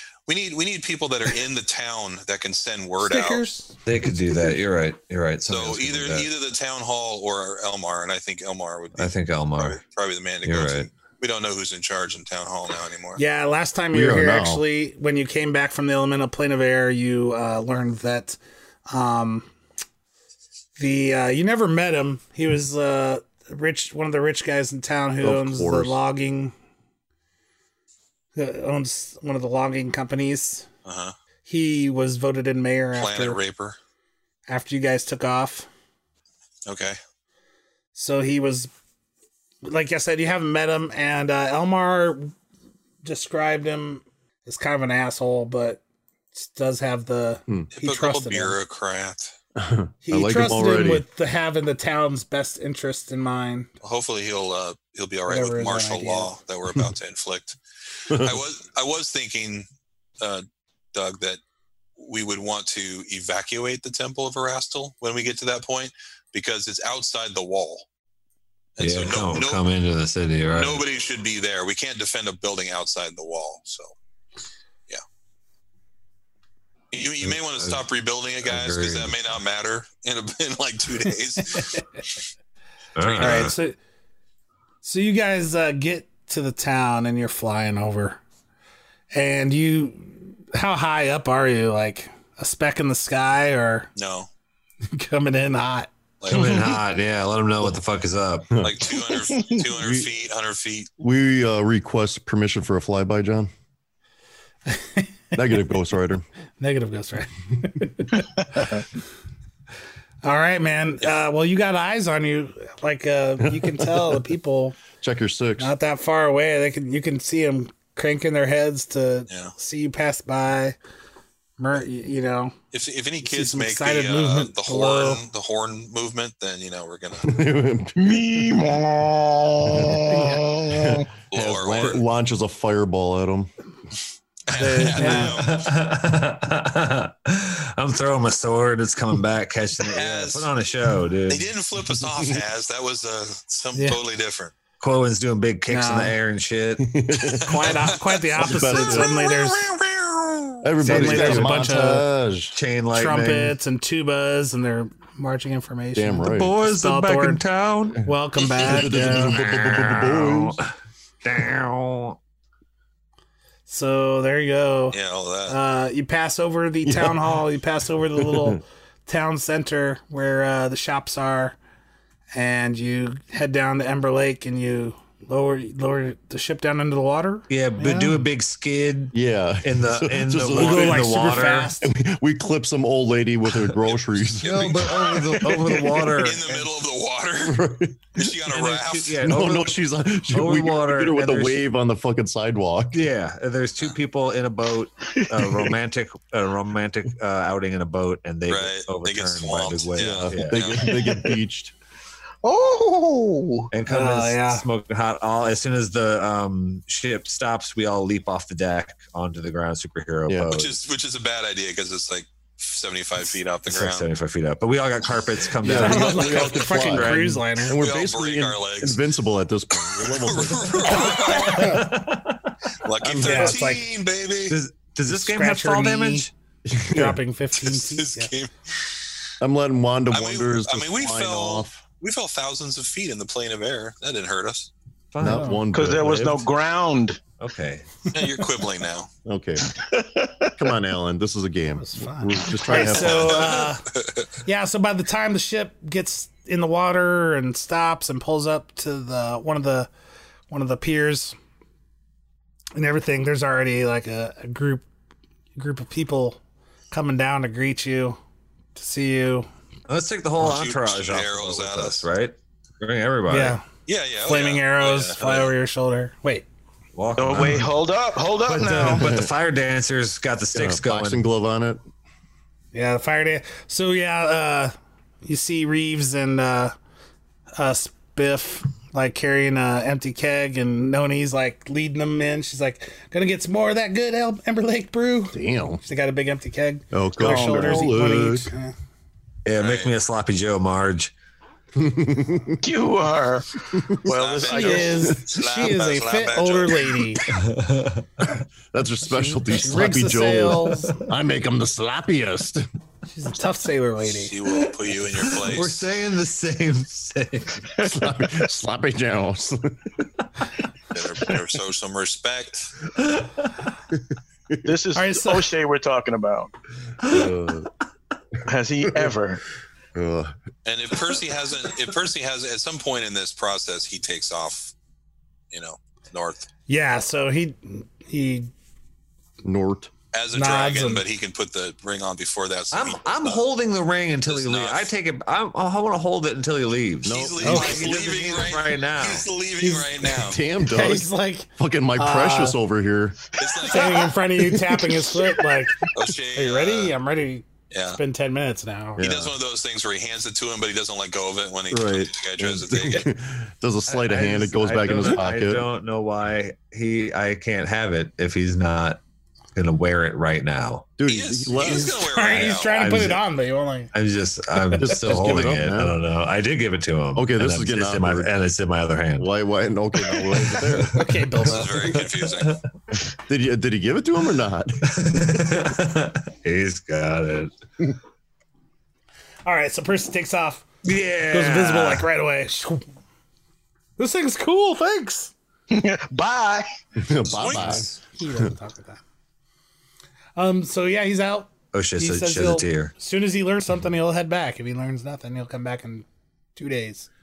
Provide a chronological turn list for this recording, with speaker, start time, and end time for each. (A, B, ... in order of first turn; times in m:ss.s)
0:00.3-0:03.5 A
0:03.0-0:03.7 B
0:03.8-0:06.3 C
0:04.2-0:04.5 D
0:05.5-0:13.2 A
0:09.0-0:09.8 C
0:10.4-0:10.9 C
0:13.2-0:18.4 B
0:13.9-0:14.6 D
0:18.9-0:19.5 B
0:20.8-0:26.5 B
0:25.2-0:26.0 D
0:28.3-0:30.6 B
0:30.8-0:31.1 A
0:31.4-0:33.4 B
0:33.0-0:33.8 A
0:34.5-0:35.7 B
0:36.6-0:37.0 A
0:37.9-0:38.7 B
0:39.6-0:42.3 B
0:43.0-0:45.8 B
0:46.3-0:48.6 B
0:47.8-0:49.3 A
0:49.6-0:51.0 D
0:50.0-0:53.7 B
0:53.8-0:57.6 A
0:55.3-0:56.3 B
0:58.1-0:58.4 D
0:58.1-0:59.6 A
1:00.2-1:01.4 A
1:02.0-1:07.8 A
1:08.8-1:09.6 A
1:08.8-1:10.8 C
1:10.6-1:13.9 A
1:16.9-1:21.8 A
1:17.2-1:17.8 C
1:18.4-1:19.2 C
1:21.5-1:21.8 B
1:23.0-1:23.5 C
1:23.0-1:23.5 A
1:23.2-1:23.8 B
1:24.8-1:28.2 B
1:29.1-1:33.9 B
1:34.0-1:34.3 A
1:34.9-1:35.9 B
1:36.2-1:36.8 A
1:36.3-1:38.5 C
1:38.5-1:40.1 D
1:38.6-1:40.9 A
1:41.0-1:43.5 D
1:44.7-1:45.3 B
1:45.3-1:46.2 D
1:46.6-1:48.2 B
1:48.4-1:48.8 E
1:50.2-1:54.8 B
1:53.4-1:54.2 D
1:55.0-1:55.7 D
1:55.6-2:00.8 B
1:59.3-1:59.5 A
2:01.6-2:02.5 B
2:02.7-2:07.3 A
2:03.2-2:05.2 B
2:07.2-2:08.3 D
2:08.0-2:11.1 E
2:09.7-2:13.5 D
2:11.3-2:12.0 A
2:14.5-2:15.7 A
2:14.5-2:15.3 B
2:14.9-2:21.5 C
2:19.8-2:20.5 A
2:21.3-2:24.5 A
2:22.0-2:22.4 D
2:23.7-2:24.0 B
2:24.8-2:26.9 C
2:25.7-2:26.1 B
2:26.8-2:27.7 D
2:27.4-2:29.6 B
2:27.5-2:30.6 A
2:28.4-2:29.1 D
2:30.6-2:32.6 D
2:30.8-2:31.7 C
2:30.8-2:32.1 B
2:32.5-2:33.6 C
2:32.9-2:37.4 B
2:35.9-2:36.5 D
2:36.2-2:40.7 C
2:38.0-2:39.3 B
2:38.6-2:40.6 D
2:41.2-2:42.2 C
2:43.7-2:45.0 B
2:44.9-2:45.6 A
2:45.5-2:51.6 B
2:46.8-2:47.3 D
2:48.2-2:48.6 D
2:52.3-2:58.2 B
2:57.5-3:01.7 C
2:59.1-3:05.0 D
3:00.5-3:01.9 B
3:03.5-3:03.7 C
3:04.4-3:07.6 A
3:04.4-3:06.7 C
3:07.4-3:08.2 D
3:08.1-3:09.2 A
3:08.5-3:11.6 C
3:09.2-3:13.1 D
3:12.9-3:20.9 C
3:18.5-3:21.0 A
3:20.0-3:21.7 D
3:20.8-3:21.4 E
3:22.4-3:23.7 E
3:23.7-3:30.8 C
3:23.9-3:24.6 B
3:30.4-3:34.1 A
3:33.7-3:37.2 C
3:35.6-3:41.8 D
3:35.6-3:37.8 B
3:37.7-3:39.0 A
3:39.7-3:41.8 A
3:41.2-3:42.5 C
3:42.8-3:44.6 A
3:43.0-3:43.8 D
3:43.2-3:43.8 B
3:44.5-3:46.3 C
3:45.1-3:46.3 B
3:46.6-3:47.2 D
3:46.9-3:48.3 B
3:47.5-3:48.5 A
3:49.4-3:51.8 D
3:50.1-3:54.7 A
3:55.1-3:56.4 C
3:55.2-3:56.3 D
3:55.2-3:55.6 B
3:55.7-3:57.2 E
3:57.4-3:58.0 C
3:58.1-3:59.1 A
3:59.2-3:59.7 D
3:59.7-4:00.5 E
4:00.6-4:03.6 D
4:01.8-4:03.8 B
4:02.8-4:04.2 A
4:04.4-4:09.9 B
4:10.5-4:11.3 B
4:12.7-4:14.8 B
4:15.6-4:16.4 B
4:16.9-4:18.2 B
4:18.8-4:19.5 B
4:19.9-4:23.6 C
4:20.4-4:22.1 A
4:23.3-4:23.6 B
4:23.9-4:25.5 A
4:24.2-4:26.4 B
4:26.9-4:27.7 C
4:27.2-4:29.2 E
4:28.4-4:31.2 C
4:28.9-4:29.3 D
4:30.5-4:31.8 D
4:32.7-4:36.7 B
4:37.6-4:48.7 B
4:45.3-4:45.8 D
4:46.9-4:48.5 D
4:47.2-4:47.9 E
4:49.4-4:51.1 C
4:49.6-4:49.9 A
4:51.8-4:52.6 D
4:52.6-4:55.1 E
4:53.7-4:54.1 D
4:54.0-4:57.0 A
4:54.5-4:57.2 B
4:57.3-4:58.3 C
4:58.7-5:02.6 D
4:59.1-5:01.0 B
5:03.1-5:04.4 B
5:04.0-5:05.9 A
5:05.1-5:07.7 C
5:07.8-5:09.9 D
5:10.9-5:12.8 A
5:13.0-5:13.5 C
5:14.6-5:16.5 E
5:14.9-5:15.5 B
5:17.0-5:17.7 D
5:17.0-5:17.3 C
5:18.4-5:19.4 E
5:18.8-5:19.1 D
5:19.9-5:20.3 D
5:20.6-5:24.7 A
5:25.5-5:26.5 A
5:26.7-5:28.5 B
5:29.4-5:29.9 D
5:30.1-5:33.4 A
5:30.3-5:31.0 B
5:32.7-5:39.3 C
5:34.2-5:34.9 A
5:37.0-5:40.4 A
5:37.0-5:38.1 D
5:37.4-5:37.8 B
5:39.6-5:42.6 B
5:40.0-5:43.2 D
5:43.4-5:44.1 A
5:43.7-5:45.8 B
5:45.9-5:46.9 A
5:46.3-5:47.4 B
5:47.7-5:48.0 A
5:48.0-5:49.0 B
5:49.0-5:49.3 D
5:49.0-5:53.1 A
5:51.7-5:55.7 D
5:53.9-5:59.0 C
5:59.5-6:00.8 C
6:01.0-6:02.0 D
6:01.1-6:02.8 A
6:01.6-6:03.9 B
6:02.3-6:03.2 C
6:03.9-6:09.3 C
6:04.8-6:06.0 D
6:07.1-6:08.3 D
6:09.2-6:11.1 D
6:10.8-6:12.6 C
6:10.9-6:12.0 B
6:11.4-6:12.6 A
6:13.2-6:15.3 D
6:14.9-6:17.5 C
6:19.4-6:20.6 B
6:20.8-6:22.1 C
6:21.3-6:22.8 B
6:24.0-6:25.3 B
6:25.7-6:26.7 E
6:27.0-6:28.5 D
6:27.3-6:28.0 A
6:27.4-6:29.0 B
6:30.4-6:37.1 B
6:31.7-6:32.9 C